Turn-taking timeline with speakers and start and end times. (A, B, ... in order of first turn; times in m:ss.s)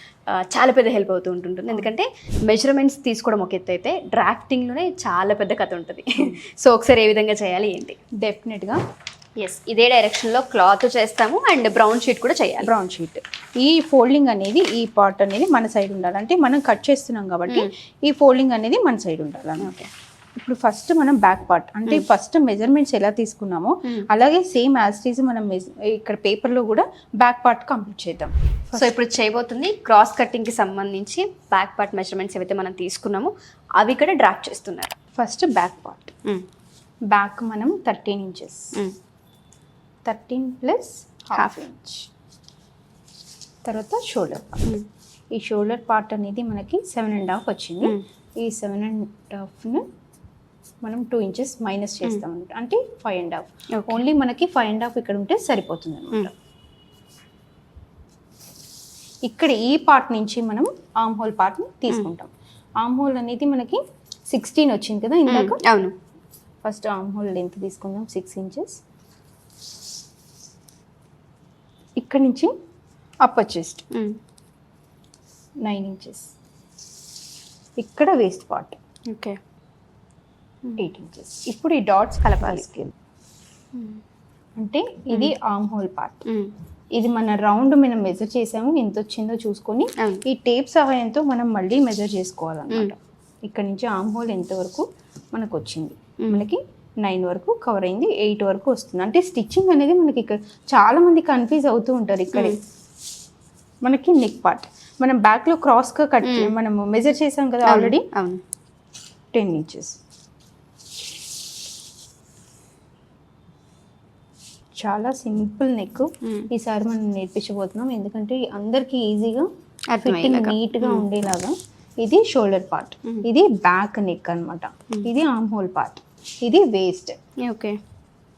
0:00.3-0:08.0 A
0:08.2-0:08.8 B
0:09.4-0:12.7 A
0:12.6-0:19.7 B
0:19.6-0:19.9 A
0:20.4-0:28.9 B
0:28.8-0:35.0 A
0:35.2-0:36.1 B
0:37.1-0:38.7 B
0:40.0-0:42.1 B
0:43.6-0:44.8 B
0:45.4-0:49.8 B
0:50.8-0:56.3 B
0:53.7-0:54.0 A
0:59.3-1:05.6 B
1:05.3-1:05.9 A
1:06.6-1:08.8 B
1:12.0-1:12.5 B
1:13.2-1:13.8 B
1:13.9-1:14.2 A
1:15.6-1:16.3 B
1:17.8-1:18.8 B
1:19.1-1:19.4 A
1:20.8-1:22.9 B
1:22.2-1:22.6 A
1:24.6-1:26.2 B
1:26.3-1:26.5 A
1:27.0-1:42.6 B
1:43.8-1:48.1 B
1:46.2-1:46.5 A
1:47.7-1:48.4 A
1:49.3-1:50.0 B
1:54.8-1:59.5 B
1:59.9-2:01.0 A
2:00.0-2:07.2 B
2:07.4-2:07.8 A